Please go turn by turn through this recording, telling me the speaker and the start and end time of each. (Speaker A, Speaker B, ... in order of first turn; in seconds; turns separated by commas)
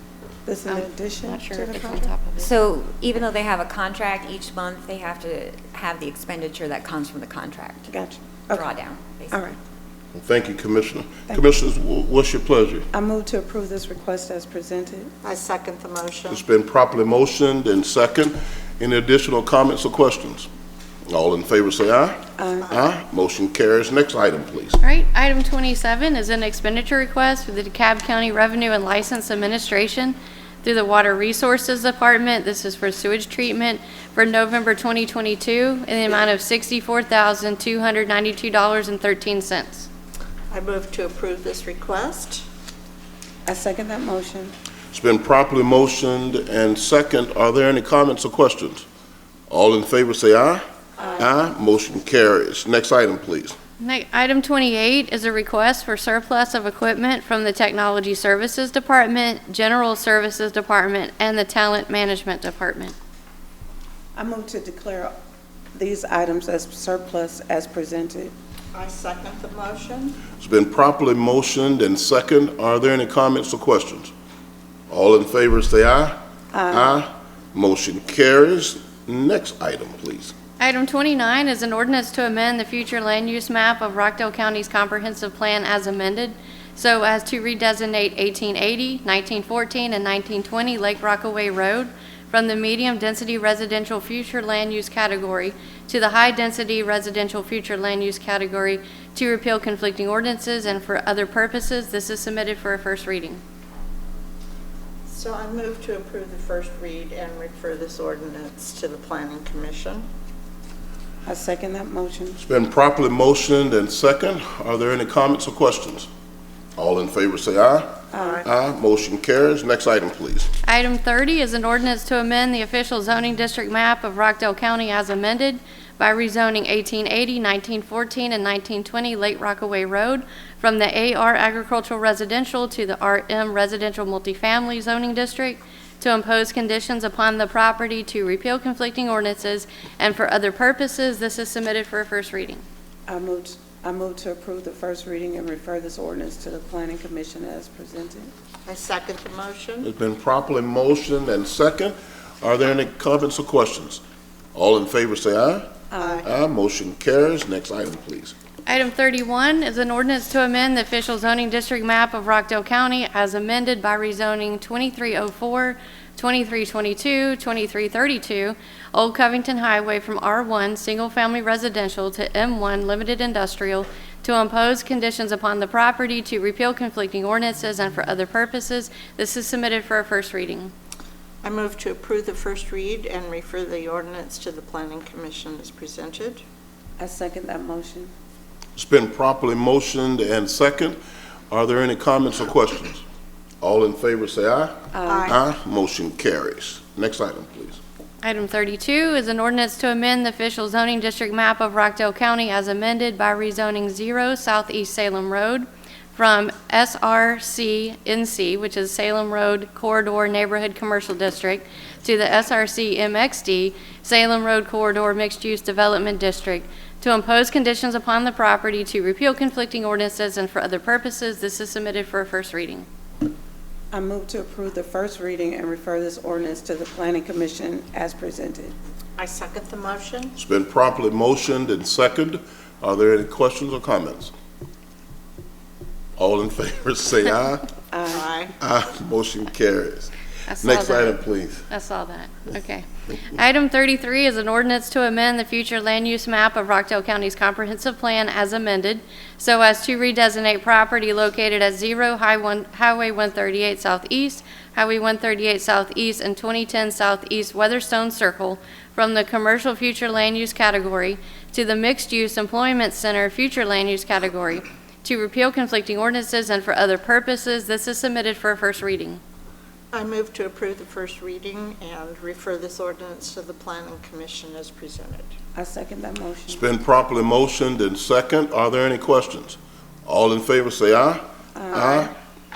Speaker A: 0.5-2.1, Speaker B: 0.7-2.5, Speaker C: 2.4-7.9, Speaker A: 7.9-8.7, Speaker C: 8.5-9.4, Speaker A: 9.3-9.6, Speaker D: 10.1-12.9, Speaker A: 12.9-15.1, Speaker E: 15.2-16.4, Speaker D: 16.3-20.5, Speaker D: 21.1-24.8, Speaker A: 22.4-22.7, Speaker E: 22.6-22.9, Speaker B: 24.8-39.9, Speaker E: 40.5-42.4, Speaker A: 43.5-44.5, Speaker D: 44.9-48.9, Speaker D: 49.5-50.6, Speaker A: 51.0-51.3, Speaker D: 51.2-53.6, Speaker B: 53.8-63.0, Speaker A: 64.2-65.1, Speaker A: 65.8-68.3, Speaker E: 68.7-70.2, Speaker D: 70.4-74.1, Speaker D: 74.9-76.2, Speaker A: 76.5-77.0, Speaker D: 76.7-80.3, Speaker B: 80.6-103.4, Speaker E: 105.1-110.1, Speaker A: 111.3-112.4, Speaker D: 112.4-116.1, Speaker D: 116.8-120.5, Speaker A: 118.1-118.4, Speaker E: 118.2-118.5, Speaker B: 120.6-142.6, Speaker A: 143.1-148.3, Speaker E: 148.7-149.9, Speaker D: 149.8-154.0, Speaker D: 154.5-158.3, Speaker A: 155.9-156.2, Speaker E: 156.0-156.3, Speaker B: 158.7-180.7, Speaker E: 181.4-186.4, Speaker A: 187.0-188.1, Speaker D: 188.8-191.0, Speaker D: 191.5-193.0, Speaker D: 193.6-197.8, Speaker A: 194.9-195.3, Speaker E: 195.1-195.4, Speaker B: 198.2-222.9, Speaker A: 223.9-228.7, Speaker E: 229.2-230.3, Speaker D: 230.4-234.3, Speaker D: 236.2-237.7, Speaker A: 237.9-238.3, Speaker E: 238.1-238.5, Speaker D: 238.6-241.7, Speaker B: 240.5-241.2, Speaker B: 241.7-269.2, Speaker E: 269.9-275.3, Speaker A: 275.6-276.7, Speaker D: 276.5-282.1, Speaker A: 281.6-282.1